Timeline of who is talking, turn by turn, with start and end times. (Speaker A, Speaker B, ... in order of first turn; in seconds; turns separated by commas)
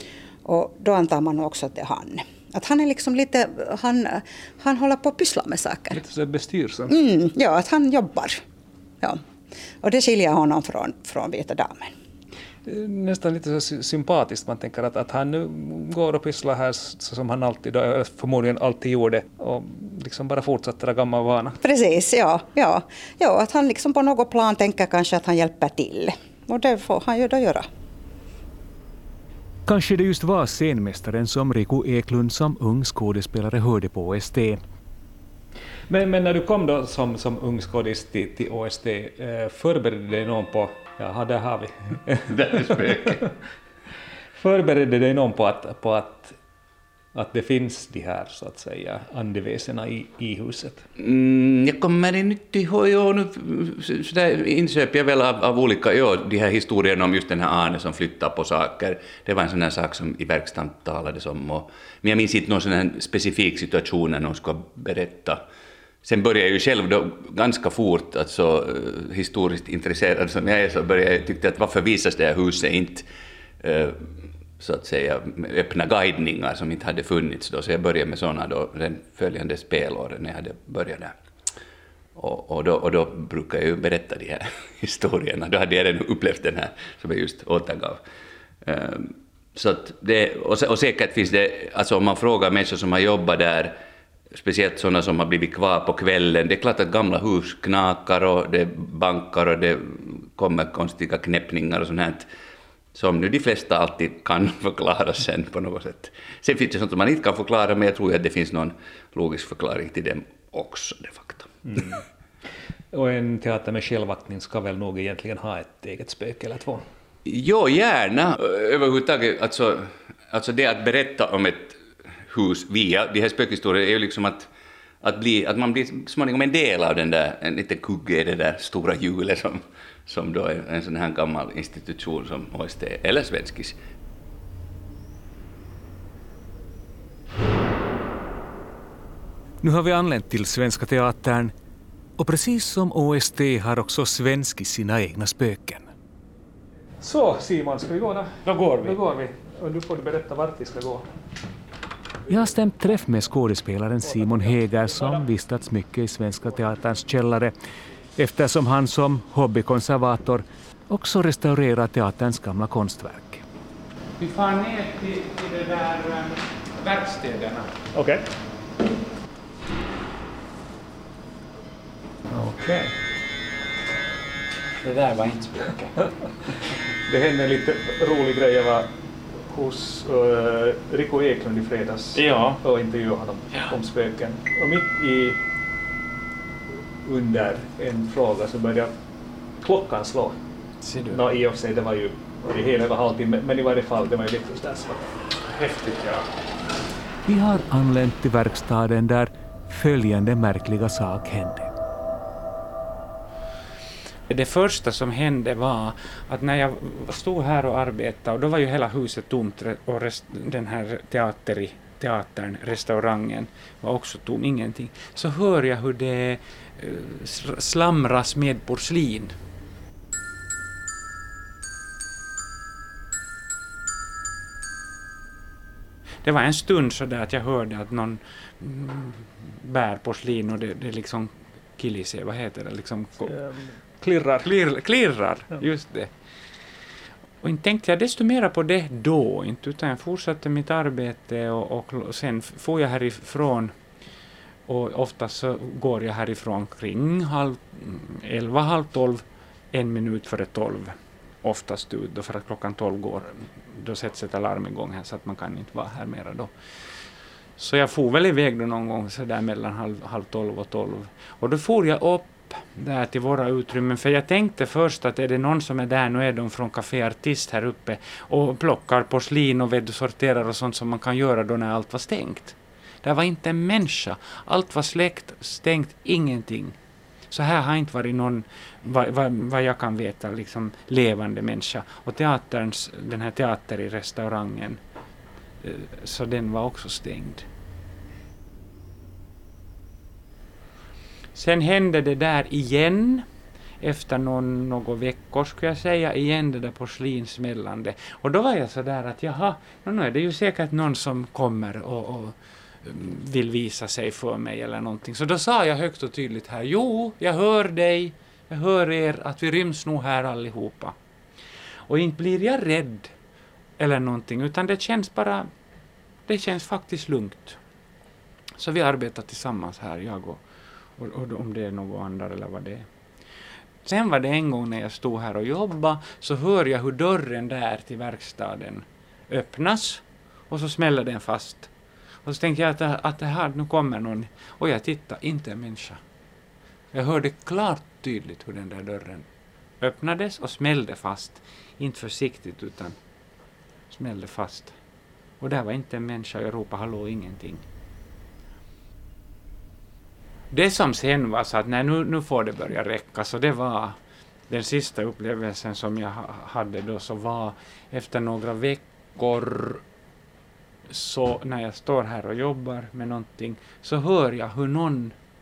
Speaker A: 0.4-6.0, Speaker B: 5.9-6.9, Speaker A: 6.9-8.4, Speaker A: 9.8-11.9, Speaker B: 12.7-21.6, Speaker A: 21.6-27.7, Speaker C: 29.6-34.6, Speaker B: 35.9-43.2, Speaker D: 42.3-43.2, Speaker B: 44.4-46.4, Speaker B: 47.1-50.8, Speaker D: 51.0-65.4, Speaker D: 66.0-73.0, Speaker D: 73.6-81.1, Speaker D: 82.2-88.0, Speaker D: 88.6-93.8, Speaker D: 94.3-102.3, Speaker D: 102.9-112.0, Speaker B: 111.7-112.0, Speaker B: 112.9-116.8, Speaker D: 117.2-124.5, Speaker D: 125.0-133.8, Speaker C: 139.6-141.5, Speaker C: 142.2-145.9, Speaker B: 147.0-151.1, Speaker E: 148.4-149.0, Speaker C: 152.3-157.5, Speaker C: 158.2-163.4, Speaker E: 164.2-167.7, Speaker B: 167.9-168.2, Speaker B: 172.3-173.0, Speaker E: 174.8-176.0, Speaker B: 177.1-178.9, Speaker B: 179.5-185.4, Speaker E: 182.1-182.6, Speaker B: 187.0-188.9, Speaker B: 189.6-190.4, Speaker E: 190.8-191.2, Speaker B: 191.1-195.1, Speaker E: 195.4-196.2, Speaker C: 197.2-201.7, Speaker E: 204.3-219.4, Speaker E: 226.2-233.3, Speaker B: 233.2-234.5, Speaker E: 234.4-236.1, Speaker E: 237.4-243.7, Speaker E: 244.7-256.6, Speaker E: 257.6-276.8, Speaker E: 277.3-284.8, Speaker E: 285.6-287.5, Speaker E: 291.3-293.2, Speaker E: 293.8-310.9, Speaker E: 311.9-313.1, Speaker E: 313.8-315.5, Speaker E: 316.2-317.6, Speaker E: 318.6-320.4, Speaker E: 320.9-322.9, Speaker E: 323.8-331.7, Speaker E: 332.2-336.0, Speaker E: 336.9-339.2, Speaker E: 339.8-343.0, Speaker E: 343.9-344.7, Speaker E: 345.4-347.6, Speaker E: 350.5-359.8, Speaker E: 360.9-365.1